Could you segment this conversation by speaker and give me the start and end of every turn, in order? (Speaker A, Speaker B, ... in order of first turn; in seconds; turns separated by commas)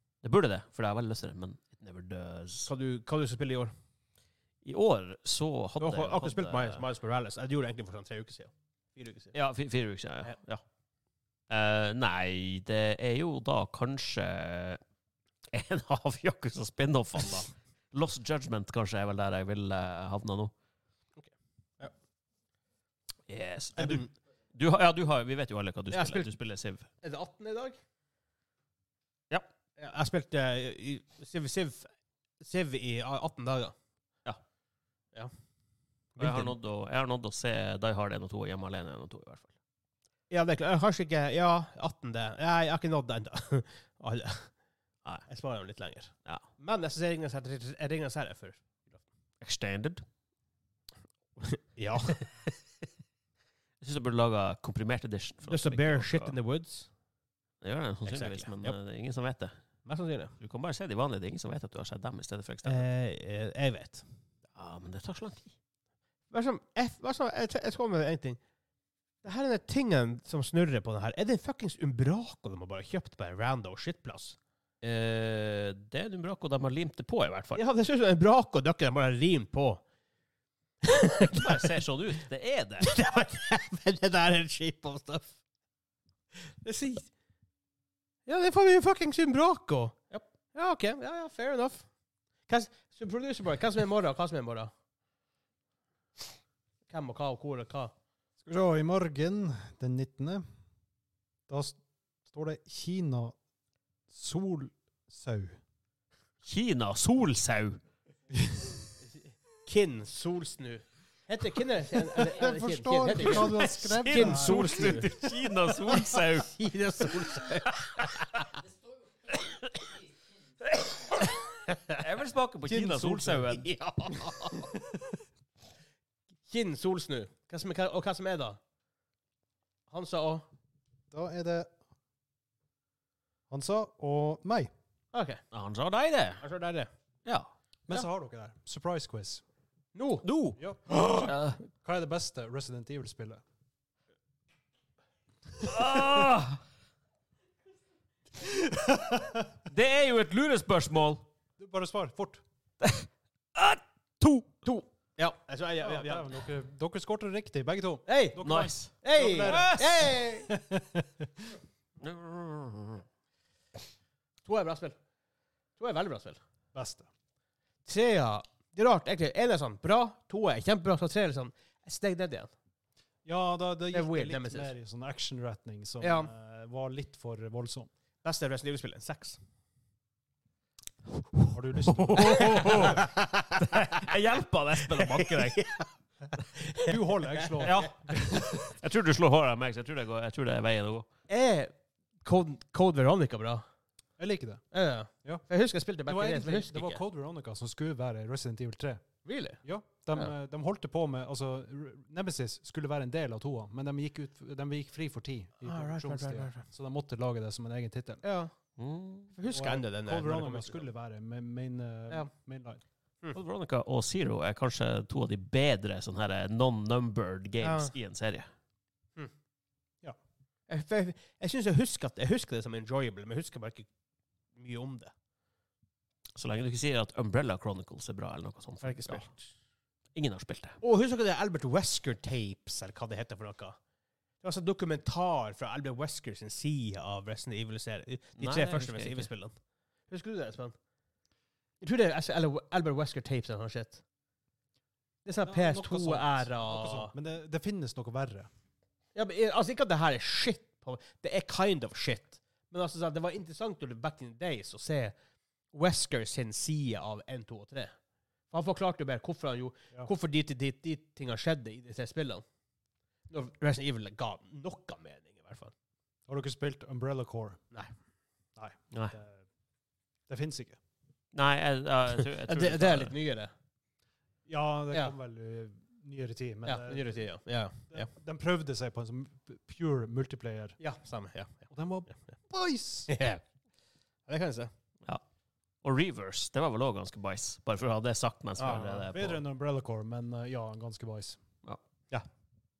Speaker A: 0.2-2.7, Speaker B: 2.6-3.7, Speaker A: 4.6-6.8, Speaker B: 5.8-9.3, Speaker A: 9.3-10.6, Speaker A: 11.5-14.8, Speaker A: 15.5-20.5, Speaker B: 21.2-21.9, Speaker A: 23.3-26.9, Speaker B: 23.8-24.1, Speaker B: 25.9-26.3, Speaker B: 27.0-27.8, Speaker B: 29.8-31.9, Speaker B: 32.4-33.7, Speaker B: 36.2-36.5, Speaker A: 36.2-39.5, Speaker B: 40.3-44.5, Speaker B: 45.3-49.0, Speaker A: 49.4-50.0, Speaker B: 51.4-52.2, Speaker A: 53.8-56.4, Speaker B: 55.5-56.9, Speaker A: 57.6-59.5, Speaker B: 58.1-58.8, Speaker B: 59.8-60.3, Speaker A: 60.4-62.9, Speaker B: 62.6-64.0, Speaker A: 64.5-65.5, Speaker B: 66.3-68.4, Speaker B: 69.2-74.4, Speaker A: 74.8-77.6, Speaker B: 77.5-79.8, Speaker B: 80.8-81.8, Speaker A: 81.3-82.9, Speaker B: 82.8-85.3, Speaker B: 86.6-87.1, Speaker B: 88.2-91.8, Speaker B: 92.5-94.7, Speaker B: 96.9-97.9, Speaker C: 98.4-100.4, Speaker C: 101.5-101.8, Speaker C: 102.3-103.3, Speaker C: 104.1-105.6, Speaker A: 106.4-107.8, Speaker B: 109.6-115.1, Speaker C: 112.2-115.1, Speaker A: 113.1-118.3, Speaker B: 115.8-118.4, Speaker A: 119.3-119.8, Speaker A: 120.7-121.4, Speaker B: 121.5-122.0, Speaker A: 122.0-123.7, Speaker C: 122.7-123.5, Speaker B: 123.0-124.7, Speaker B: 126.5-128.6, Speaker B: 129.9-130.4, Speaker C: 131.1-131.7, Speaker C: 133.5-134.7, Speaker B: 135.1-135.4, Speaker A: 135.5-136.4, Speaker B: 136.4-136.9, Speaker C: 137.9-139.4, Speaker B: 139.9-140.2, Speaker A: 140.2-140.6, Speaker C: 140.6-143.4, Speaker A: 141.2-141.6, Speaker A: 145.6-146.6, Speaker A: 149.7-151.2, Speaker C: 151.6-152.4, Speaker A: 152.8-154.5, Speaker B: 154.6-156.3, Speaker C: 155.8-161.2, Speaker B: 158.1-158.4, Speaker A: 158.4-159.8, Speaker B: 159.0-160.5, Speaker A: 162.0-163.0, Speaker B: 164.4-164.9, Speaker B: 165.8-166.4, Speaker C: 166.7-167.1, Speaker B: 167.8-172.5, Speaker C: 173.2-177.9, Speaker B: 173.9-174.7, Speaker B: 176.0-176.3, Speaker B: 178.2-179.4, Speaker C: 181.4-183.0, Speaker A: 181.9-185.6, Speaker B: 182.2-183.6, Speaker B: 184.9-185.9, Speaker B: 186.5-187.8, Speaker C: 186.8-188.2, Speaker A: 187.6-191.1, Speaker B: 191.3-191.7, Speaker B: 192.2-193.6, Speaker C: 194.2-194.6, Speaker B: 194.7-197.0, Speaker C: 196.1-199.0, Speaker B: 199.2-199.6, Speaker C: 199.6-208.2, Speaker B: 205.6-206.6, Speaker B: 208.2-208.5, Speaker A: 208.8-209.3, Speaker B: 209.3-210.8, Speaker C: 209.5-212.8, Speaker A: 213.3-218.5, Speaker B: 217.6-217.9, Speaker B: 220.7-223.9, Speaker B: 224.6-225.1, Speaker A: 226.3-229.3, Speaker B: 228.8-229.5, Speaker A: 230.1-230.8, Speaker B: 230.8-233.8, Speaker B: 234.4-239.5, Speaker A: 238.4-239.3, Speaker B: 240.1-240.8, Speaker B: 241.8-244.0, Speaker B: 245.2-247.1, Speaker C: 245.4-248.5, Speaker B: 249.1-255.1, Speaker B: 255.7-257.9, Speaker B: 258.5-262.4, Speaker B: 263.3-265.7, Speaker C: 266.3-267.6, Speaker C: 268.6-269.4, Speaker A: 268.9-269.1, Speaker C: 270.3-270.8, Speaker A: 271.3-273.1, Speaker B: 272.4-273.5, Speaker C: 274.5-277.1, Speaker B: 276.6-278.1, Speaker C: 277.9-280.8, Speaker B: 280.8-281.7, Speaker C: 281.7-283.1, Speaker B: 283.1-283.4, Speaker B: 284.3-284.7, Speaker A: 285.8-289.4, Speaker B: 288.6-289.1, Speaker C: 288.7-291.4